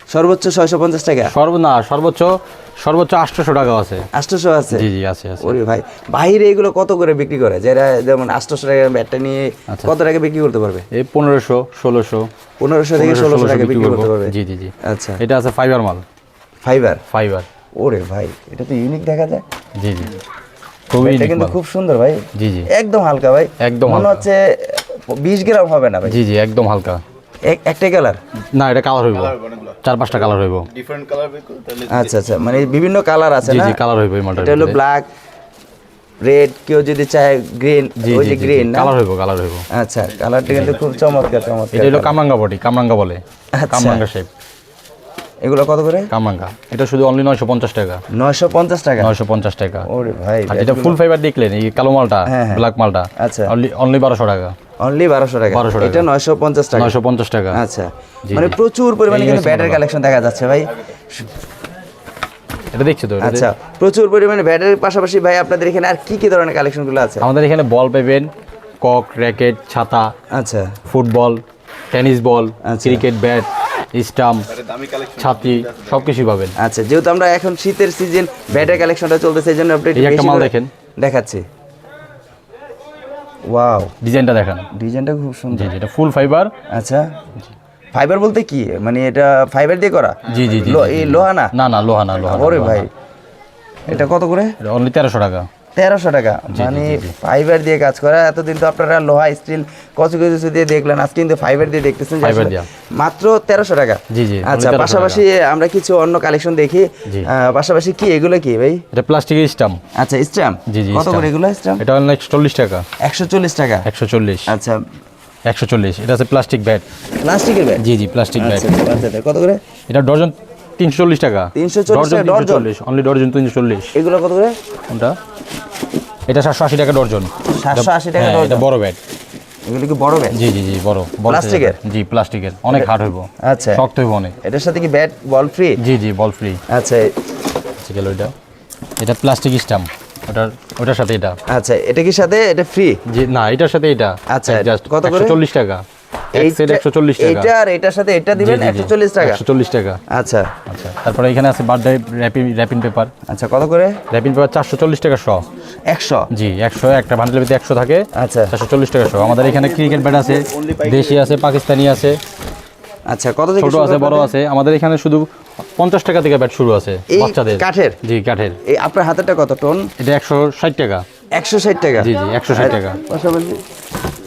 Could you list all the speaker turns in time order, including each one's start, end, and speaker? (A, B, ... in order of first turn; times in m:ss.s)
0:00.1-0:01.3 A
0:01.3-0:04.1 B
0:04.1-0:04.9 A
0:04.7-0:05.6 B
0:05.4-0:10.9 A
0:10.9-0:12.3 B
0:12.6-0:15.2 A
0:13.0-0:16.0 B
0:16.6-0:17.0 A
0:17.1-0:17.5 B
0:17.8-0:19.4 A
0:19.8-0:20.2 B
0:20.9-0:21.6 B
0:21.0-0:26.2 A
0:22.3-0:22.7 B
0:23.6-0:24.2 B
0:26.0-0:27.0 B
0:27.4-0:28.2 A
0:28.5-0:30.7 B
0:29.2-0:29.8 C
0:30.7-0:32.7 C
0:31.9-0:33.8 A
0:33.4-0:34.8 B
0:34.4-0:35.1 A
0:36.2-0:39.0 A
0:38.0-0:39.7 B
0:39.7-0:42.2 A
0:40.5-0:40.8 B
0:40.6-0:41.5 C
0:41.7-0:44.3 B
0:43.5-0:44.1 A
0:45.4-0:46.1 A
0:46.1-0:48.0 B
0:48.1-0:49.2 A
0:49.0-0:49.9 B
0:49.8-0:51.0 A
0:50.5-0:54.6 B
0:52.3-0:53.5 A
0:54.8-0:57.0 A
0:55.5-0:56.1 B
0:56.8-0:57.6 B
0:57.5-1:01.3 A
0:58.3-0:58.6 B
0:59.1-0:59.8 B
1:02.7-1:03.5 B
1:03.2-1:07.2 A
1:07.2-1:10.1 B
1:10.3-1:10.8 A
1:10.9-1:14.5 B
1:12.6-1:13.0 A
1:14.5-1:16.1 C
1:15.2-1:16.6 B
1:16.6-1:21.5 A
1:19.9-1:20.7 B
1:23.5-1:23.9 A
1:24.0-1:24.7 B
1:24.7-1:25.7 A
1:25.5-1:26.5 B
1:26.7-1:27.1 A
1:27.9-1:31.5 A
1:30.3-1:32.9 B
1:32.2-1:32.9 A
1:33.9-1:34.6 A
1:34.6-1:35.5 B
1:35.8-1:48.8 A
1:36.5-1:37.2 B
1:42.2-1:42.7 B
1:44.1-1:45.2 B
1:48.9-1:49.8 B
1:50.0-1:51.8 A
1:50.7-1:52.9 B
1:53.0-1:53.9 A
1:53.8-1:54.5 B
1:54.5-1:54.8 A
1:55.4-1:56.8 B
1:57.2-1:57.8 A
1:57.8-1:58.7 B
1:58.4-1:59.6 A
1:59.9-2:04.0 B
2:01.6-2:02.7 A
2:04.0-2:04.6 A
2:04.9-2:05.2 B
2:06.3-2:09.0 B
2:07.6-2:08.7 A
2:09.7-2:10.4 A
2:10.3-2:14.4 B
2:11.3-2:11.8 A
2:12.7-2:13.8 A
2:14.4-2:15.8 A
2:15.8-2:16.6 B
2:16.7-2:17.1 A
2:17.8-2:18.3 B
2:19.0-2:21.4 B
2:21.5-2:23.0 A
2:23.1-2:27.5 B
2:24.3-2:25.4 A
2:26.3-2:29.4 A
2:28.4-2:30.0 B
2:30.1-2:30.5 A
2:30.7-2:33.1 B
2:33.3-2:34.0 A
2:34.1-2:35.4 B
2:35.9-2:36.3 A
2:36.3-2:42.2 B
2:38.1-2:38.5 A
2:39.2-2:41.4 C
2:43.1-2:44.3 A
2:43.6-2:48.6 B
2:47.1-2:48.0 A
2:48.6-2:49.9 A
2:50.0-2:51.1 B
2:51.3-2:53.6 A
2:52.0-2:53.0 B